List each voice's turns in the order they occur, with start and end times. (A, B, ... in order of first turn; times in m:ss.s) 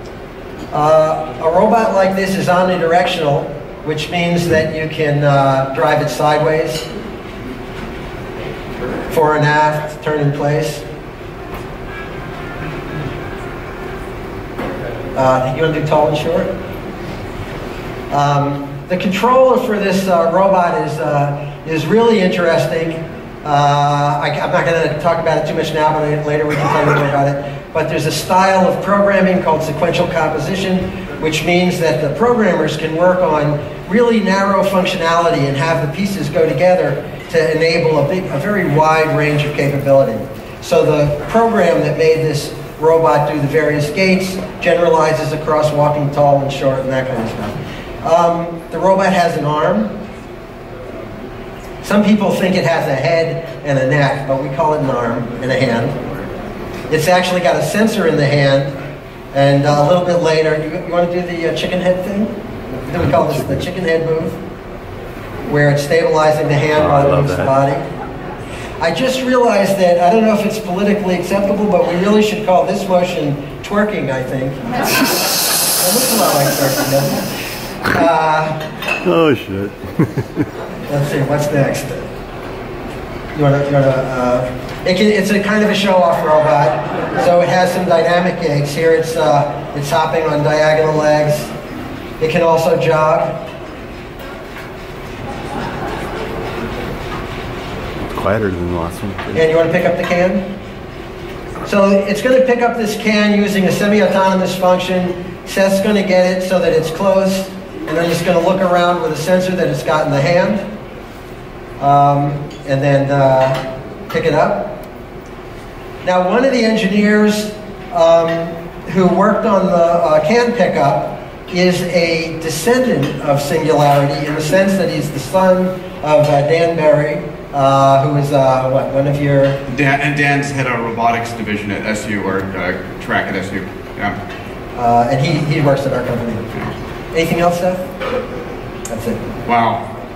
0:00.7-0:06.9 A
0:09.1-0:10.8 A
0:15.2-0:16.5 A
0:18.1-0:49.9 A
0:51.8-0:56.0 A
0:56.9-0:58.7 A
0:59.3-1:02.3 A
1:02.9-1:04.4 A
1:05.4-1:07.8 A
1:06.8-1:07.5 B
1:08.8-1:14.6 A
1:15.8-1:17.3 A
1:17.8-1:18.6 A
1:19.0-1:20.3 B
1:20.9-1:22.0 A
1:23.3-1:31.5 A
1:32.2-1:33.4 A
1:38.1-1:39.4 B
1:39.3-1:40.5 A
1:41.6-1:50.6 A
1:51.8-1:54.8 A
1:56.0-2:09.6 A
2:09.7-2:14.2 C
2:14.7-2:17.8 A
2:18.9-2:19.2 A
2:19.4-2:19.9 C